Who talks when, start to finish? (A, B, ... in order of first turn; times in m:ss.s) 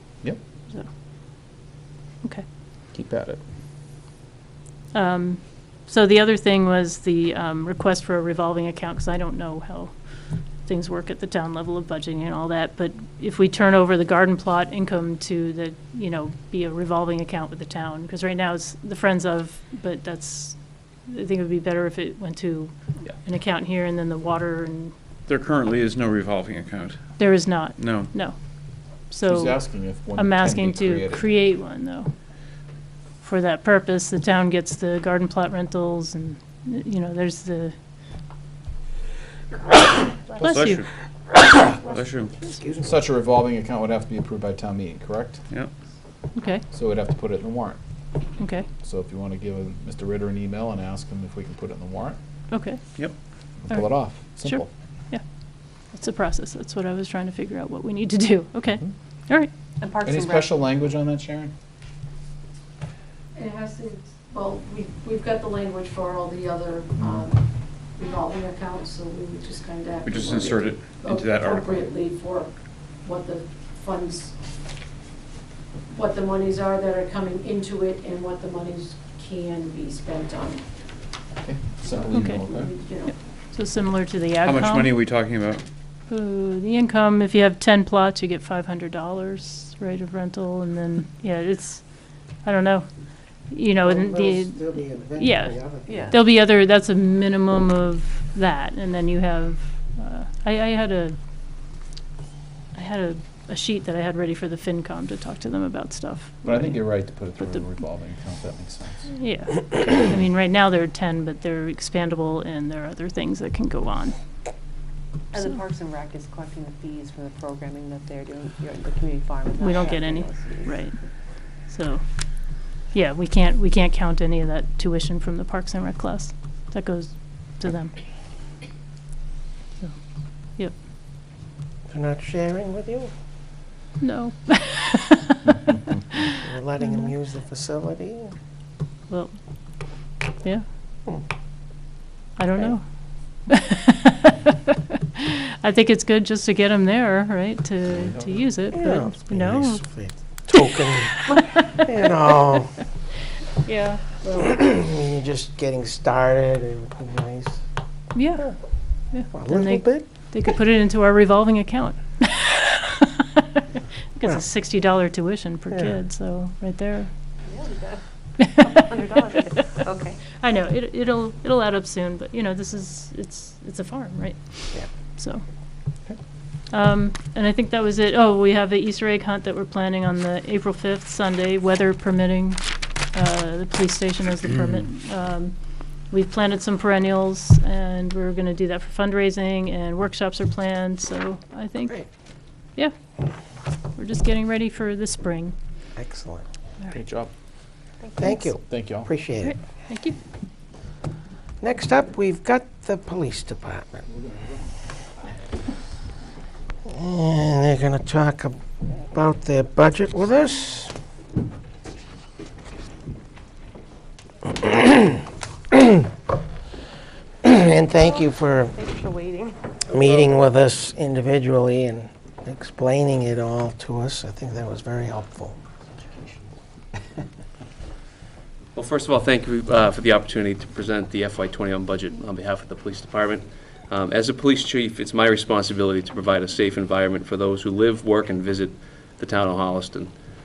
0:02.9-0:03.4 A
0:04.9-0:10.0 B
0:10.6-0:22.7 B
0:23.2-0:24.9 B
0:25.3-0:27.0 C
0:27.2-0:28.3 B
0:27.8-0:28.1 C
0:29.1-0:29.6 B
0:29.2-0:31.2 A
0:30.2-0:32.1 B
0:33.2-0:37.7 B
0:40.3-0:40.6 D
0:40.4-0:40.8 B
0:40.5-0:40.8 C
0:42.0-0:42.3 C
0:42.8-0:45.4 A
0:46.3-0:46.6 B
0:46.7-0:47.8 A
0:48.4-0:48.7 B
0:48.8-0:52.2 A
0:52.5-0:52.8 B
0:53.7-0:54.7 A
0:54.4-0:55.2 B
0:55.9-0:59.5 B
0:59.8-1:00.6 D
1:00.0-1:01.5 A
1:03.3-1:14.3 E
1:10.1-1:11.8 C
1:15.9-1:20.6 E
1:21.4-1:22.7 A
1:22.1-1:22.4 B
1:22.4-1:23.1 E
1:23.5-1:24.9 B
1:24.4-1:25.6 C
1:26.1-1:31.8 B
1:32.4-1:32.9 B
1:33.5-1:35.6 B
1:33.8-1:36.2 F
1:35.9-1:36.2 D
1:36.1-1:41.2 B
1:42.8-1:46.8 B
1:46.4-1:49.1 A
1:49.1-1:54.2 B
1:55.3-2:00.8 D
1:59.6-2:01.0 B
2:01.7-2:02.0 B
2:02.9-2:07.9 B
2:11.9-2:13.1 F
2:14.0-2:15.6 B
2:16.1-2:17.1 B
2:16.4-2:18.3 F
2:22.4-2:22.8 B
2:23.5-2:29.8 B
2:28.0-2:28.4 A
2:28.7-2:32.8 F
2:33.7-2:34.0 B
2:34.3-2:37.6 F
2:38.2-2:38.5 B
2:39.1-2:47.1 B
2:39.3-2:40.1 F
2:47.5-2:50.2 D
2:48.4-2:49.6 B
2:50.3-2:55.4 B
2:56.7-3:02.6 B
3:03.1-3:05.5 B
3:06.1-3:12.0 B
3:13.9-3:15.6 B
3:16.0-3:16.4 F
3:16.9-3:17.3 A
3:18.0-3:18.3 D
3:18.2-3:19.6 F
3:18.7-3:19.1 A
3:19.4-3:20.2 B
3:21.6-3:24.0 F
3:26.9-3:30.9 F
3:34.5-3:35.2 F
3:35.7-3:36.0 F
3:37.4-3:38.7 F
3:37.9-3:39.7 D
3:39.9-3:45.6 F
3:48.8-4:00.1 G